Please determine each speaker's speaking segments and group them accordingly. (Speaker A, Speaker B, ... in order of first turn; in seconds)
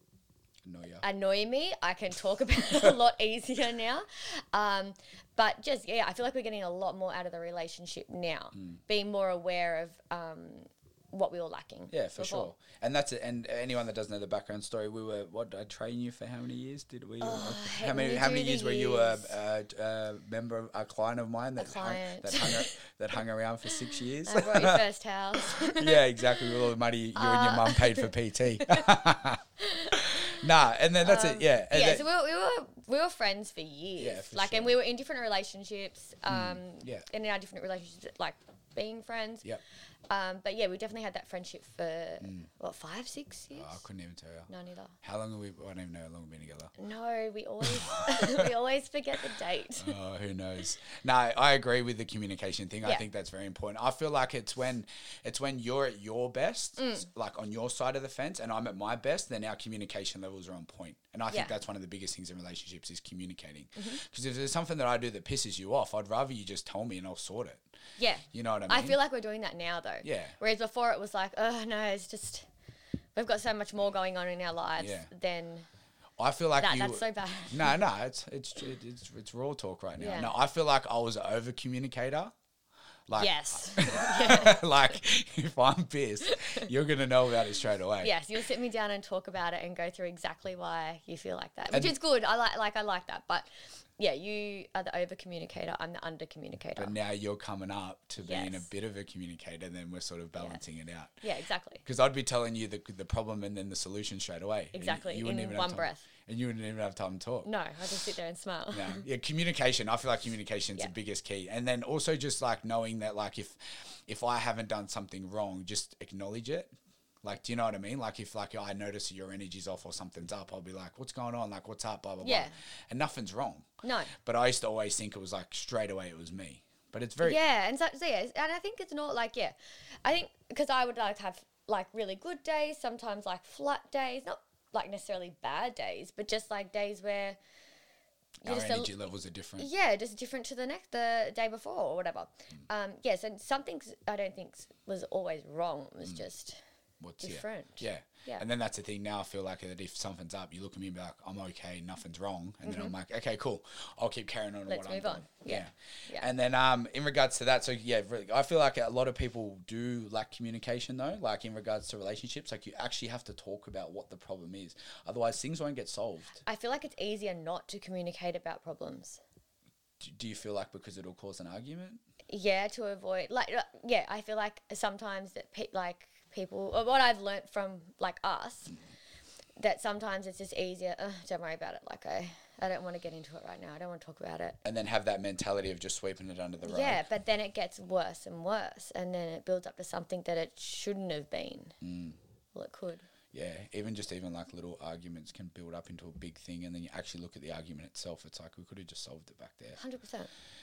Speaker A: 0.6-1.0, 11.9-24.8, 25.4-32.0, 34.0-34.7, 36.3-37.0, 42.2-42.5, 43.5-44.5, 45.0-46.7, 47.6-48.5, 49.8-67.7, 68.3-69.0, 70.0-70.4, 74.8-75.1, 76.2-82.3, 83.1-88.1, 96.8-101.2, 101.8-107.5, 108.7-127.4, 138.4-139.7, 147.0-166.4, 170.0-172.0, 184.6-187.0, 191.8-192.2, 193.3-199.8
Speaker B: 1.0-12.5, 17.2-19.3, 21.6-22.7, 24.2-28.9, 29.6-30.5, 31.0-39.5, 40.1-43.8, 44.5-44.9, 46.8-50.0, 56.8-57.0, 68.0-72.5, 73.1-75.7, 76.6-77.8, 80.0-80.3, 83.2-84.6, 86.2-86.6, 88.0-96.9, 98.2-98.7, 101.2-101.8, 104.7-106.0, 107.4-109.0, 122.2-122.5, 123.8-124.1, 127.2-137.4, 138.4-138.9, 139.6-146.6, 147.2-148.4, 152.6-152.9, 154.7-156.3, 166.4-169.2, 172.3-178.7, 179.6-184.6, 186.6-191.8, 192.5-193.1, 199.8-200.3